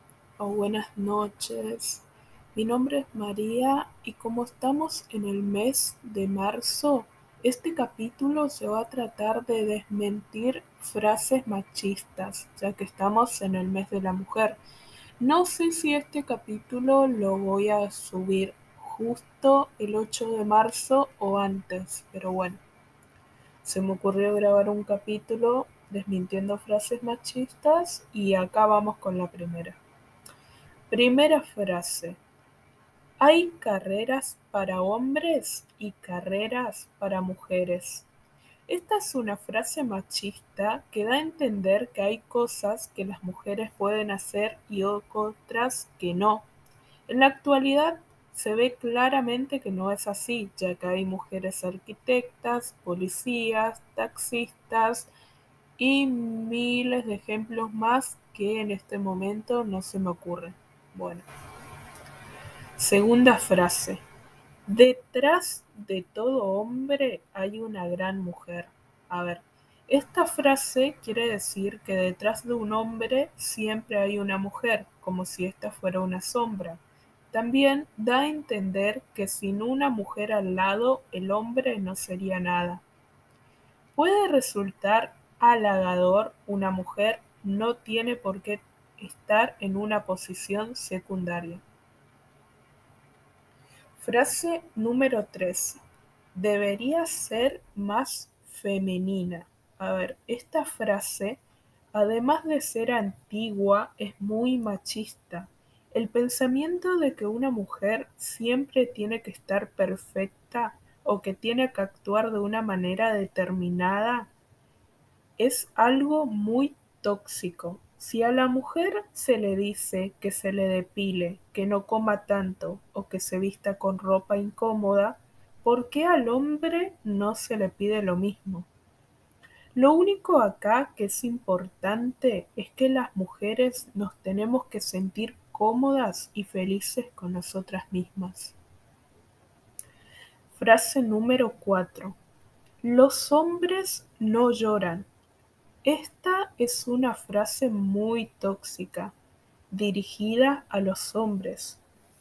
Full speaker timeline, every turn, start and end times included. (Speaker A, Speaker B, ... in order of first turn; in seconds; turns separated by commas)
Speaker A: 0.4-14.6, Speaker A: 15.2-22.6, Speaker A: 23.6-29.8, Speaker A: 30.9-32.2, Speaker A: 33.2-38.1, Speaker A: 38.7-46.5, Speaker A: 47.1-55.1, Speaker A: 55.8-61.2, Speaker A: 62.8-64.0, Speaker A: 64.7-82.8, Speaker A: 84.0-91.6, Speaker A: 94.0-95.8, Speaker A: 96.3-101.4, Speaker A: 101.9-114.3, Speaker A: 115.4-128.7, Speaker A: 129.8-138.6, Speaker A: 140.5-142.2, Speaker A: 142.8-145.1, Speaker A: 145.8-149.1, Speaker A: 149.7-151.8